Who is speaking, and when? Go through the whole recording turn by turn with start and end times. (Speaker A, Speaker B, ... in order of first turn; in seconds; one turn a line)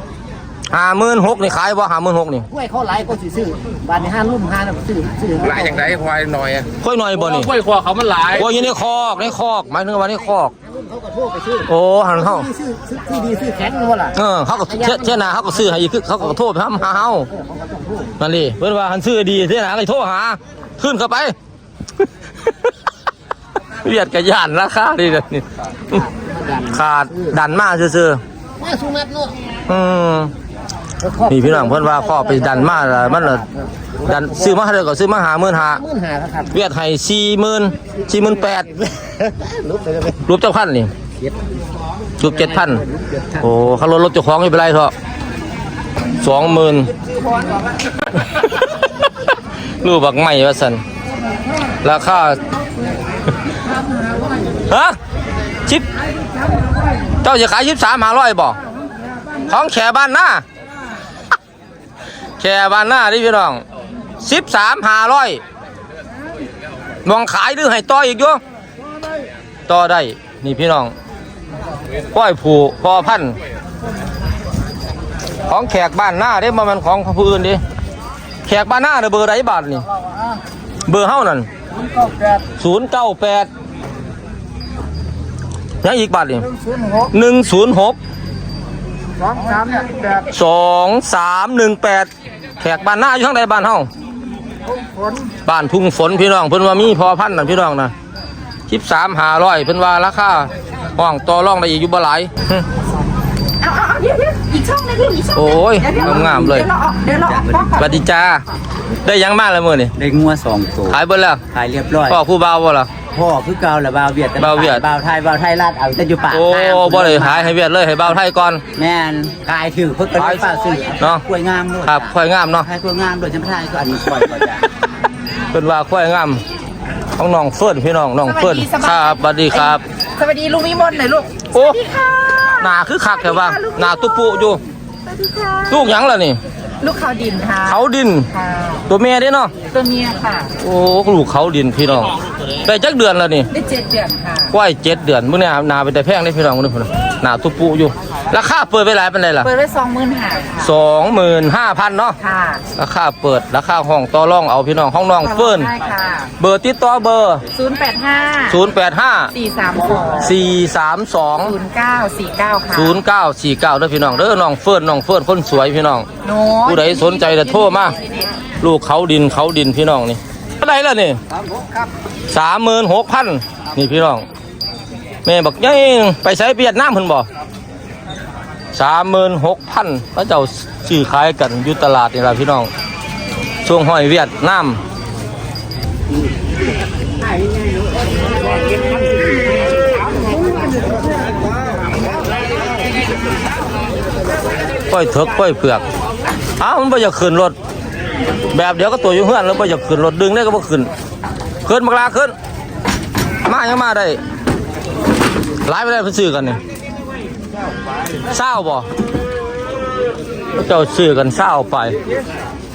Speaker A: 0.7-2.5
Speaker B: 2.8-5.1
Speaker C: 3.1-3.5
Speaker C: 4.5-4.8
Speaker D: 5.4-6.7
Speaker A: 6.8-7.5
Speaker D: 7.3-8.4
Speaker A: 8.2-10.5
Speaker B: 11.0-11.5
Speaker A: 11.6-12.5
Speaker B: 12.6-14.1
Speaker A: 14.1-17.3
Speaker A: 18.2-21.3
Speaker A: 23.8-26.1
Speaker A: 26.6-28.2
Speaker B: 28.8-29.1
Speaker A: 29.7-30.3
Speaker B: 31.0-31.8
Speaker A: 31.2-33.5
Speaker A: 34.0-35.8
Speaker A: 36.5-38.8
Speaker A: 40.2-40.9
Speaker A: 42.2-42.8
Speaker A: 43.3-44.9
Speaker A: 46.2-46.9
Speaker A: 49.8-50.8
Speaker A: 51.8-52.4
Speaker A: 54.7-55.0
Speaker A: 57.2-58.6
Speaker A: 59.5-60.4
Speaker A: 62.4-63.6
Speaker A: 64.2-65.4
Speaker A: 67.0-68.4
Speaker A: 69.7-70.9
Speaker A: 72.1-73.4
Speaker A: 75.5-77.6
Speaker A: 78.4-79.9
Speaker A: 80.8-81.5
Speaker A: 82.6-83.5
Speaker A: 85.8-86.5
Speaker A: 87.0-88.0
Speaker B: 89.2-90.1
Speaker A: 90.3-92.1
Speaker A: 92.6-93.9
Speaker A: 95.4-97.9
Speaker A: 98.7-102.6
Speaker E: 103.6-107.9
Speaker A: 105.3-106.7
Speaker A: 107.7-108.4
Speaker A: 109.0-109.9
Speaker C: 110.0-111.0
Speaker A: 110.9-111.4
Speaker C: 111.5-112.2
Speaker A: 112.0-112.9
Speaker C: 113.1-117.5
Speaker A: 114.3-114.8
Speaker A: 116.3-118.6
Speaker C: 118.7-124.7
Speaker A: 120.1-121.2
Speaker A: 121.8-122.7
Speaker A: 125.5-126.4
Speaker A: 127.2-129.8
Speaker E: 128.2-135.9
Speaker A: 131.5-131.8
Speaker A: 132.6-134.6
Speaker A: 135.7-136.4
Speaker E: 136.8-138.8
Speaker A: 137.6-138.3
Speaker A: 138.9-139.5
Speaker E: 139.7-140.5
Speaker A: 140.6-143.5
Speaker E: 143.5-144.5
Speaker A: 144.5-149.5
Speaker E: 149.4-150.7
Speaker A: 150.6-152.2
Speaker E: 152.2-152.6
Speaker A: 152.7-155.7
Speaker E: 155.2-156.3
Speaker A: 156.4-157.4
Speaker E: 157.5-158.6
Speaker A: 158.5-159.3
Speaker E: 159.3-160.3
Speaker A: 160.2-161.5
Speaker E: 161.4-163.0
Speaker A: 162.7-166.1
Speaker E: 166.2-168.3
Speaker A: 166.6-167.9
Speaker A: 168.6-171.2
Speaker A: 172.3-174.2
Speaker A: 175.2-177.3
Speaker A: 178.7-182.7
Speaker A: 183.6-184.8
Speaker A: 194.9-195.8
Speaker A: 196.6-197.6
Speaker A: 198.5-200.9
Speaker A: 201.6-202.3
Speaker A: 203.4-204.2
Speaker A: 205.6-206.6
Speaker A: 208.2-208.9
Speaker A: 210.5-211.9